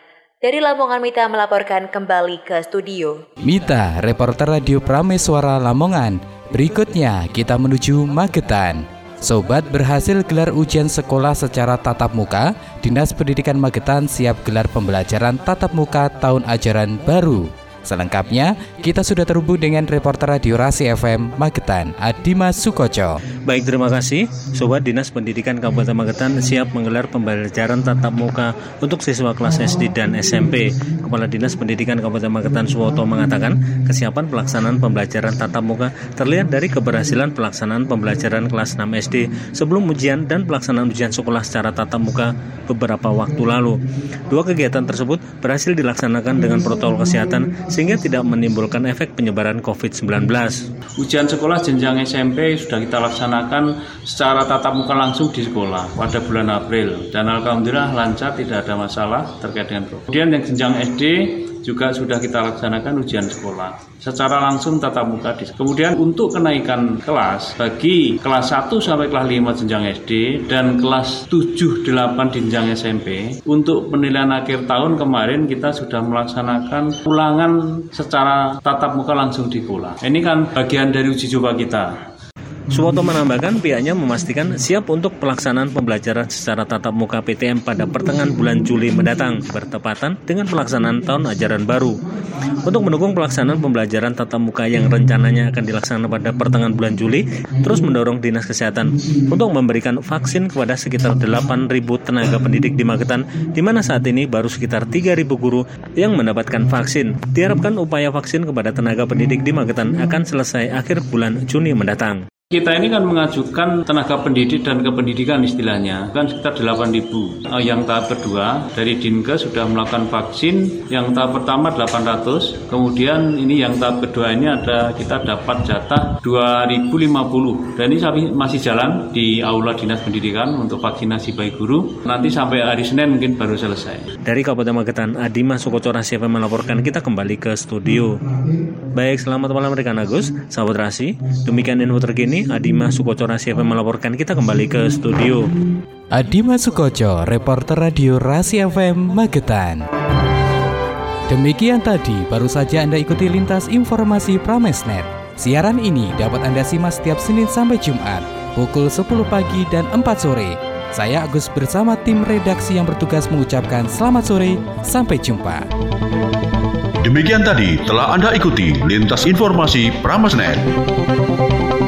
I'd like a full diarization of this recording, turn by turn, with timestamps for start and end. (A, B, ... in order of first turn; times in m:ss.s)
0:00.4-0:03.2 A
0:03.4-0:23.2 B
0:23.4-0:50.6 C
0:51.0-1:21.9 D
1:22.7-1:32.0 C
1:32.6-1:52.2 C
1:52.5-2:14.1 D
2:14.2-2:18.2 C
2:19.0-2:25.5 C
2:26.1-2:29.9 B
2:31.3-2:45.6 B
2:47.0-2:50.7 E